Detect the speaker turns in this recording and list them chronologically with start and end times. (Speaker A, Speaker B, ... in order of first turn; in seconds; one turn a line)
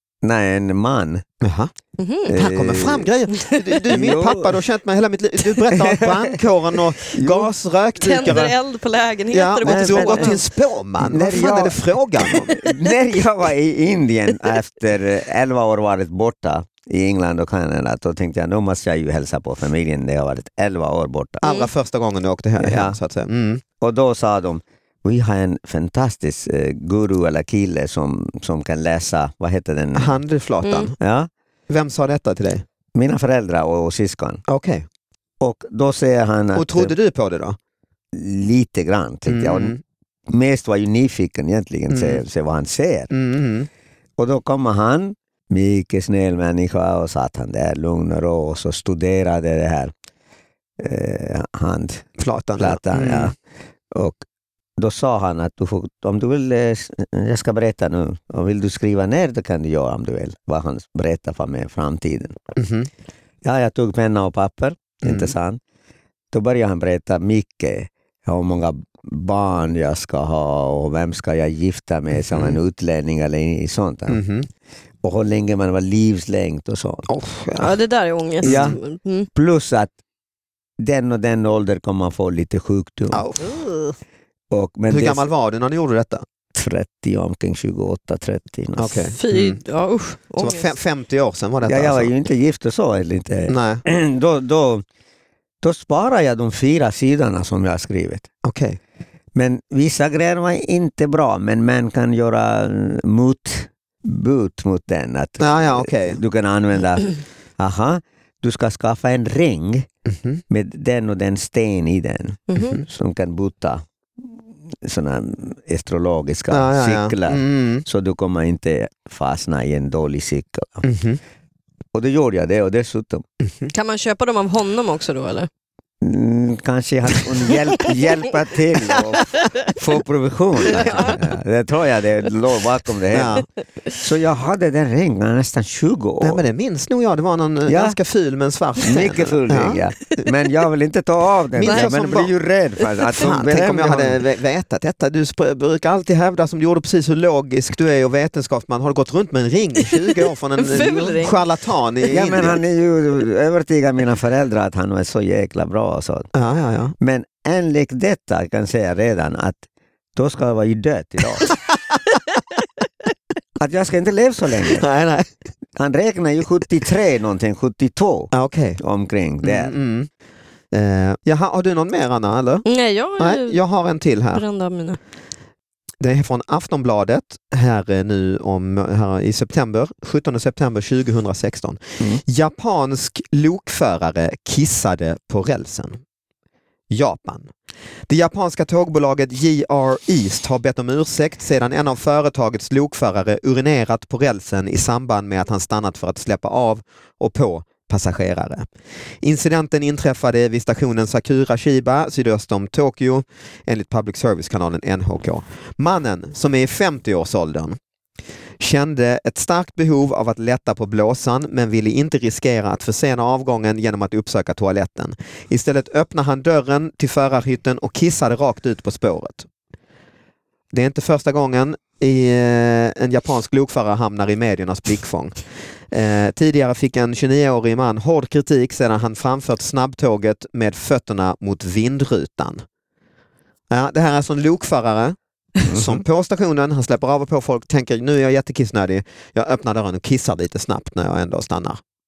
Speaker A: 0.2-1.2
Speaker B: 1.4-1.7
Speaker C: 2.0-2.4
Speaker A: 2.3-3.1
Speaker B: 2.3-8.6
Speaker C: 3.3-3.8
Speaker A: 3.9-4.6
Speaker A: 5.6-6.4
Speaker A: 7.1-7.5
Speaker C: 8.0-10.4
Speaker B: 9.3-12.6
Speaker A: 9.6-10.4
Speaker A: 11.0-21.4
Speaker C: 12.6-12.9
Speaker B: 21.4-23.6
Speaker A: 22.6-23.0
Speaker A: 23.8-30.1
Speaker B: 29.9-30.9
Speaker A: 31.0-31.3
Speaker B: 31.7-32.6
Speaker A: 32.9-34.4
Speaker B: 34.5-34.9
Speaker A: 35.4-36.9
Speaker B: 36.5-37.6
Speaker A: 38.1-39.8
Speaker B: 39.3-39.8
Speaker A: 40.3-43.1
Speaker B: 41.9-42.2
Speaker B: 43.1-43.7
Speaker A: 44.2-49.9
Speaker A: 50.8-53.4
Speaker B: 52.2-53.3
Speaker A: 53.9-54.2
Speaker A: 54.8-62.4
Speaker B: 62.6-62.9
Speaker A: 63.4-65.6
Speaker B: 65.0-65.3
Speaker A: 66.3-74.2
Speaker B: 72.2-72.6
Speaker B: 74.1-74.5
Speaker A: 75.0-77.1
Speaker B: 77.1-77.8
Speaker C: 77.6-79.3
Speaker B: 78.4-78.8
Speaker A: 78.4-78.8
Speaker A: 79.3-79.9
Speaker A: 80.8-83.2
Speaker B: 83.1-83.6
Speaker C: 83.5-83.9
Speaker A: 84.5-85.3
Speaker B: 84.9-86.2
Speaker A: 86.5-89.0
Speaker B: 88.8-89.6
Speaker C: 89.2-90.7
Speaker B: 90.4-92.1
Speaker A: 91.6-94.8
Speaker B: 93.5-93.8
Speaker A: 95.6-98.3
Speaker B: 98.4-98.8
Speaker A: 99.3-109.9
Speaker B: 105.4-106.2
Speaker B: 110.1-110.4
Speaker A: 110.5-120.8
Speaker C: 112.5-112.8
Speaker B: 116.5-117.8
Speaker B: 120.8-121.2
Speaker A: 121.9-123.2
Speaker C: 123.7-125.5
Speaker A: 126.0-133.4
Speaker C: 130.8-131.2
Speaker B: 133.1-133.4
Speaker A: 134.0-136.4
Speaker B: 136.2-139.8
Speaker A: 137.7-138.0
Speaker A: 138.8-144.2
Speaker B: 141.6-142.3
Speaker C: 141.7-141.9
Speaker B: 143.1-152.6
Speaker C: 150.6-151.4
Speaker A: 152.1-156.3
Speaker B: 156.3-156.9
Speaker A: 157.0-159.6
Speaker A: 160.1-161.5
Speaker A: 163.6-164.9
Speaker B: 164.7-165.3
Speaker A: 165.8-169.7
Speaker B: 168.3-168.8
Speaker B: 169.4-170.1
Speaker B: 170.7-172.6
Speaker C: 172.7-173.6
Speaker B: 173.2-174.4
Speaker C: 174.3-175.0
Speaker B: 176.0-186.0
Speaker B: 186.9-187.5
Speaker B: 188.1-198.7
Speaker B: 199.2-207.8
Speaker B: 208.6-219.5
Speaker B: 220.7-225.4
Speaker B: 225.9-232.6
Speaker B: 233.7-241.8
Speaker A: 235.7-236.0